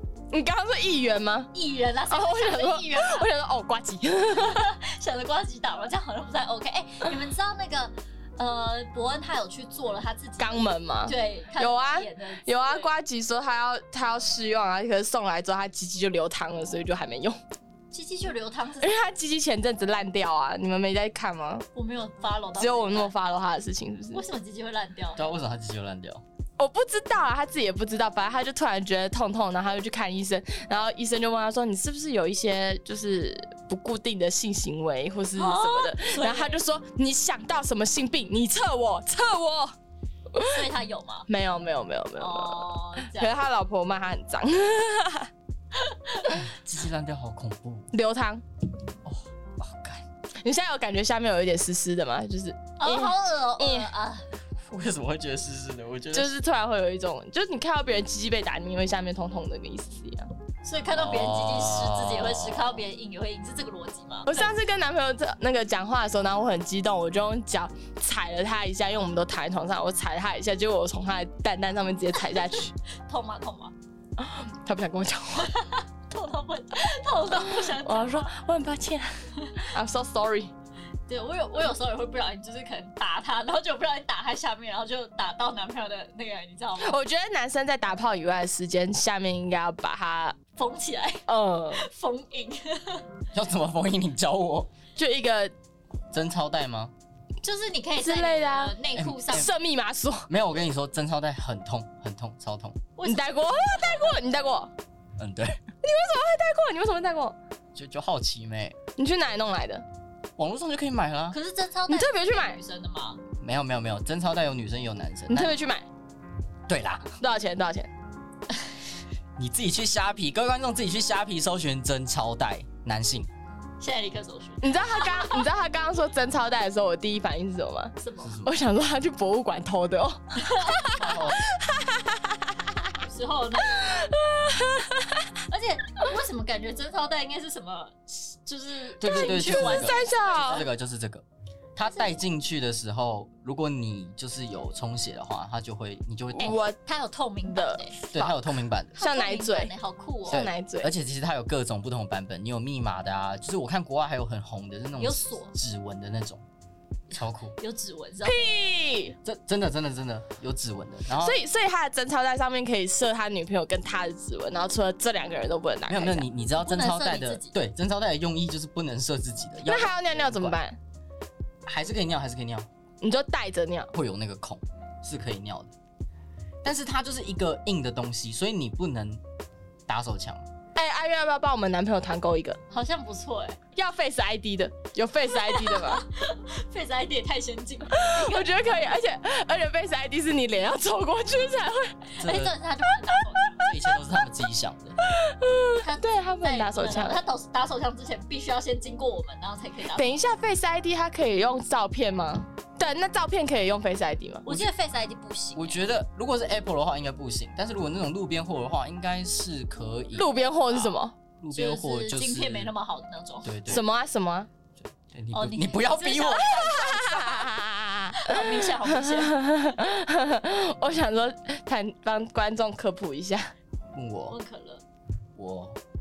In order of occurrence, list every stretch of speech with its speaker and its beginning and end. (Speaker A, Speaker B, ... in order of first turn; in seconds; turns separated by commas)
Speaker A: 0.3-1.5, Speaker B: 1.5-3.3, Speaker A: 2.1-4.6, Speaker B: 4.3-12.9, Speaker A: 10.4-17.4, Speaker B: 17.9-19.0, Speaker A: 18.8-21.6, Speaker B: 21.7-23.1, Speaker A: 22.6-24.2, Speaker B: 24.1-25.3, Speaker C: 25.1-26.2, Speaker A: 26.6-39.7, Speaker B: 35.4-36.6, Speaker A: 40.3-40.6, Speaker B: 40.4-41.3, Speaker A: 41.3-45.3, Speaker B: 42.2-43.3, Speaker B: 45.8-46.3, Speaker C: 46.3-47.9, Speaker A: 47.9-48.4, Speaker C: 49.0-50.0, Speaker A: 50.4-53.9, Speaker B: 52.8-54.2, Speaker C: 54.7-56.3, Speaker A: 56.1-60.3, Speaker B: 60.6-64.5, Speaker C: 60.9-62.8, Speaker A: 64.2-72.7, Speaker B: 72.2-73.7, Speaker A: 74.2-75.5, Speaker B: 75.3-78.3, Speaker A: 77.4-80.5, Speaker B: 81.1-87.0, Speaker A: 86.8-90.4, Speaker B: 90.5-93.0, Speaker A: 91.3-91.8, Speaker C: 93.3-94.7, Speaker A: 95.0-95.5, Speaker C: 96.1-96.9, Speaker B: 97.4-99.5, Speaker A: 98.0-98.8, Speaker C: 98.9-99.5, Speaker A: 99.3-100.3, Speaker C: 100.3-102.8, Speaker B: 103.0-104.1, Speaker A: 103.0-104.7, Speaker C: 105.2-105.6, Speaker A: 105.8-107.3, Speaker C: 107.7-108.8, Speaker A: 109.0-109.8, Speaker C: 110.4-111.4, Speaker B: 111.3-113.2, Speaker A: 111.9-112.6, Speaker C: 113.4-115.5, Speaker A: 115.3-115.8, Speaker C: 116.7-117.1, Speaker A: 117.2-117.9, Speaker C: 119.4-123.3, Speaker B: 123.8-125.5, Speaker A: 124.6-132.5, Speaker B: 128.0-128.4, Speaker C: 128.2-128.6, Speaker B: 130.4-131.1, Speaker C: 130.8-131.5, Speaker B: 132.9-134.0, Speaker A: 133.7-135.2, Speaker B: 135.5-140.7, Speaker C: 139.0-141.2, Speaker A: 139.1-140.6, Speaker C: 141.8-146.6, Speaker B: 141.8-142.1, Speaker A: 146.3-146.8, Speaker B: 146.4-147.9, Speaker A: 147.5-148.3, Speaker C: 148.1-149.0, Speaker B: 149.0-150.4, Speaker A: 149.0-149.7, Speaker A: 150.3-150.9, Speaker C: 150.3-156.4, Speaker B: 155.0-155.5, Speaker C: 157.1-157.5, Speaker B: 157.6-158.5, Speaker A: 158.2-159.2, Speaker C: 159.2-161.4, Speaker A: 161.2-166.3, Speaker C: 165.9-170.6, Speaker B: 166.6-167.5, Speaker A: 169.6-170.8, Speaker C: 171.7-172.7, Speaker A: 173.0-173.9, Speaker C: 173.9-175.7, Speaker C: 176.6-179.2, Speaker C: 179.9-180.4, Speaker A: 180.8-182.6, Speaker B: 182.7-183.6, Speaker A: 183.8-186.1, Speaker B: 185.4-188.6, Speaker A: 187.9-192.1, Speaker C: 192.2-192.5, Speaker B: 192.2-193.7, Speaker C: 193.6-195.0, Speaker A: 195.1-197.2, Speaker B: 195.8-200.1, Speaker A: 199.9-204.4, Speaker B: 204.4-205.8, Speaker C: 205.5-212.7, Speaker A: 210.1-211.1, Speaker B: 211.5-213.5, Speaker C: 213.4-213.8, Speaker A: 213.7-214.5, Speaker C: 214.8-216.8, Speaker B: 215.3-217.5, Speaker A: 216.4-223.5, Speaker B: 218.2-219.3, Speaker C: 223.9-224.4, Speaker B: 224.3-224.8, Speaker C: 225.3-225.8